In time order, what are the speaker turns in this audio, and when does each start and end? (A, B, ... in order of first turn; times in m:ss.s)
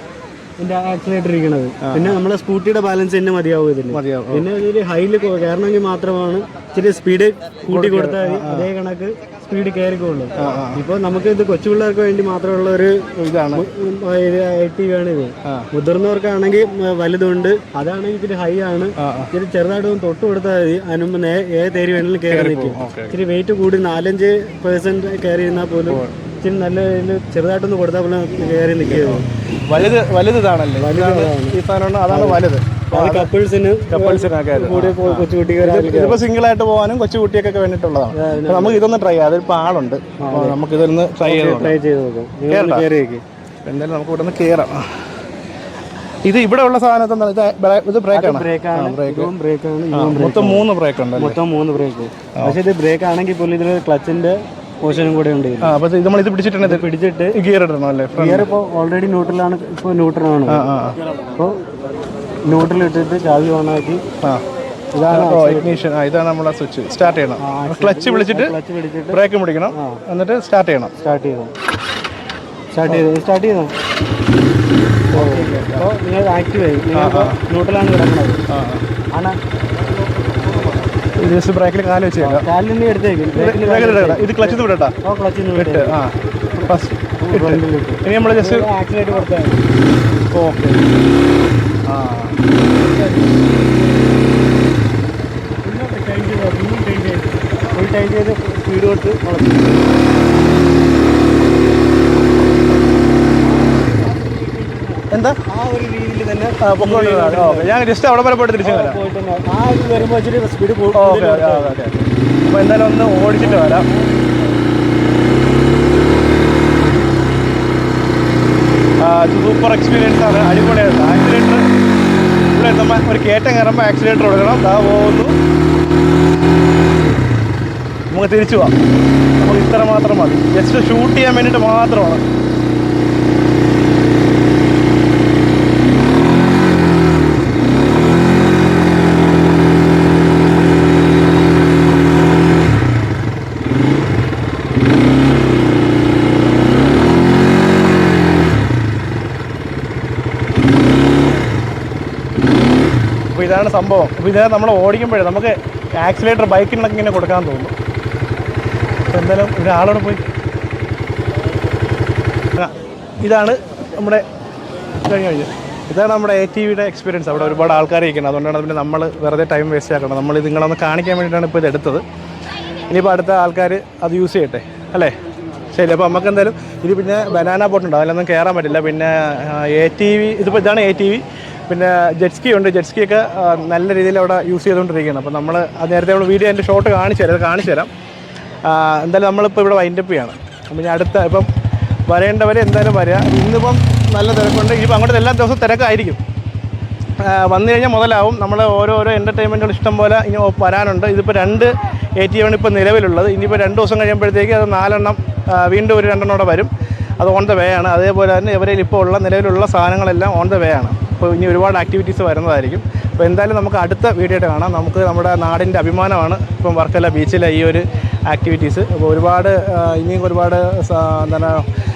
0:00.6-0:12.9 A
0:01.8-0:02.2 B
0:03.9-0:04.5 B
0:07.7-0:08.7 B
0:10.4-0:10.8 B
0:13.2-0:13.6 B
0:13.5-0:30.0 A
0:19.0-0:19.3 B
0:22.3-0:23.2 B
0:25.9-0:26.1 B
0:28.8-0:33.3 B
0:30.8-0:31.6 A
0:32.1-0:36.2 A
0:33.9-0:41.8 B
0:38.1-0:38.8 A
0:40.2-0:40.6 A
0:41.2-0:43.2 A
0:42.5-0:42.9 B
0:43.6-0:45.0 B
0:46.2-0:49.3 B
0:48.1-0:55.7 A
0:49.9-0:51.4 B
0:55.6-0:58.5 B
0:56.6-0:57.3 A
0:58.1-1:00.7 A
1:00.5-1:01.0 B
1:02.5-1:04.0 A
1:04.9-1:05.7 A
1:05.1-1:08.5 B
1:07.4-1:09.2 A
1:09.1-1:10.9 B
1:11.0-1:11.5 A
1:12.7-1:13.7 A
1:15.1-1:15.9 B
1:15.1-1:18.4 A
1:16.9-1:17.4 B
1:18.5-1:18.8 B
1:21.2-1:22.5 B
1:22.2-1:26.0 A
1:23.3-1:24.9 B
1:25.5-1:26.1 B
1:26.6-1:28.7 B
1:27.2-1:29.6 A
1:30.3-1:30.8 B
1:31.9-1:32.4 B
1:32.8-1:33.4 A
1:35.6-1:40.0 A
1:44.8-1:47.8 A
1:45.1-1:45.4 B
1:46.6-1:49.0 B
1:48.6-1:51.8 A
1:50.9-1:53.9 B
1:53.4-1:54.1 A
1:59.0-2:01.6 B
2:02.5-2:05.3 B
2:08.1-2:08.7 B
2:09.4-2:12.2 B
2:33.3-2:37.7 B
2:39.1-2:40.2 B
2:42.6-2:44.2 B
2:45.0-2:52.0 B
2:52.9-2:55.1 B
2:55.7-3:07.9 B
3:08.7-3:11.5 B
3:12.1-3:16.2 B
3:17.2-3:41.7 B